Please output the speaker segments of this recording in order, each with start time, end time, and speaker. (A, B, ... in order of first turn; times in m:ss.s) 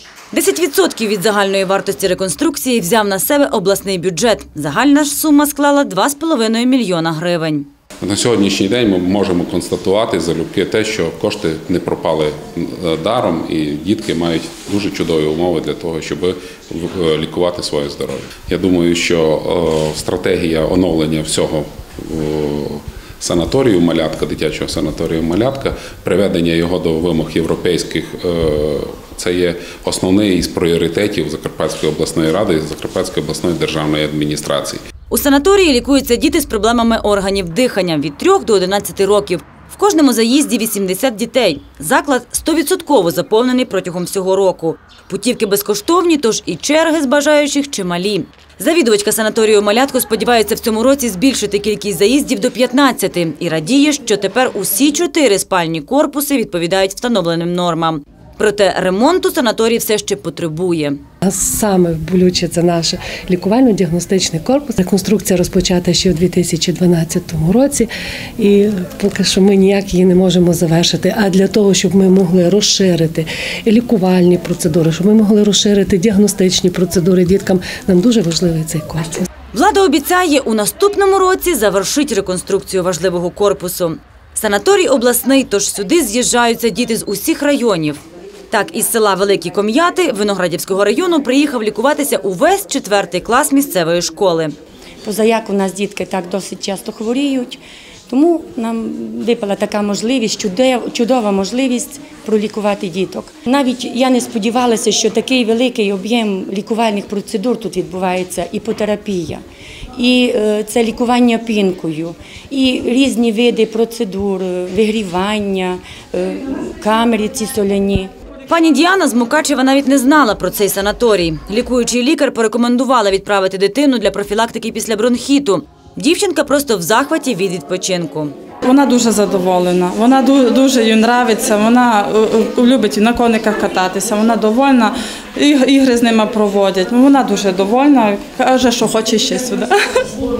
0:00.3-0:07.7 A
0:08.0-0:34.8 B
0:35.1-1:01.0 A
1:01.2-1:19.3 C
1:19.5-1:34.6 A
1:35.0-1:49.4 D
1:50.0-1:58.1 D
1:58.5-2:08.4 A
2:08.6-2:20.0 E